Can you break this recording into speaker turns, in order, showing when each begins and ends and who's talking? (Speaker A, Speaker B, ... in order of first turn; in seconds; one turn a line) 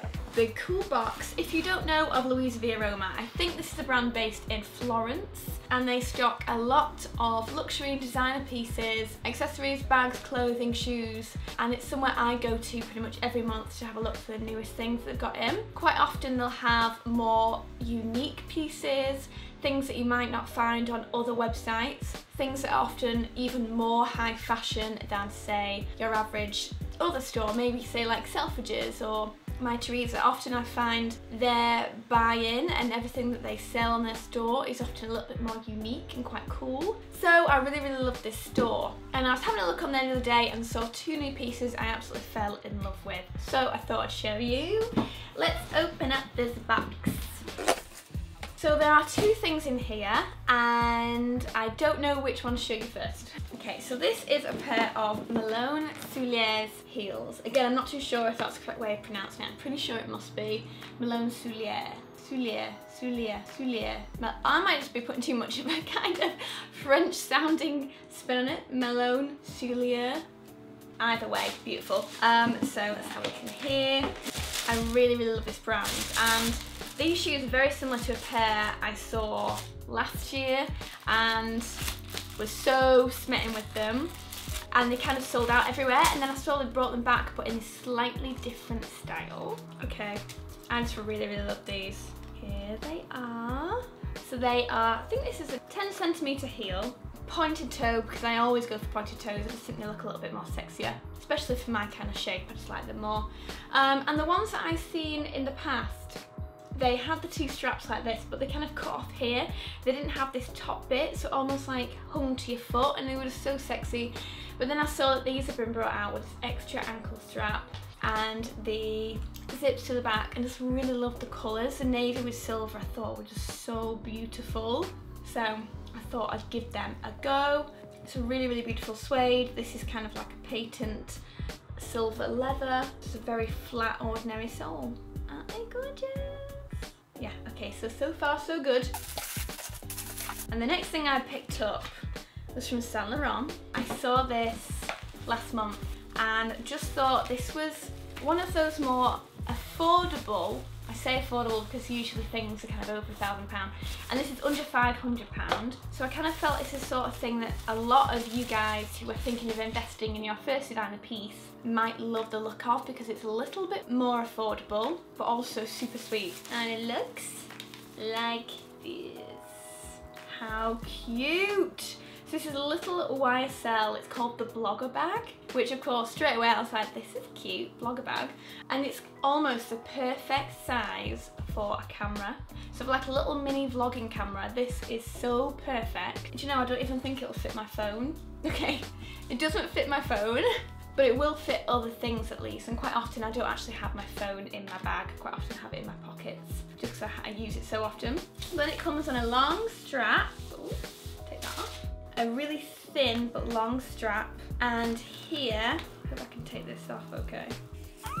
Speaker A: 0.3-47.5
Speaker A: 48.5-70.2
Speaker A: 71.0-74.1
Speaker A: 74.7-84.1
Speaker A: 84.7-106.2
Speaker A: 106.7-131.2
Speaker A: 131.8-139.0
Speaker A: 140.5-207.6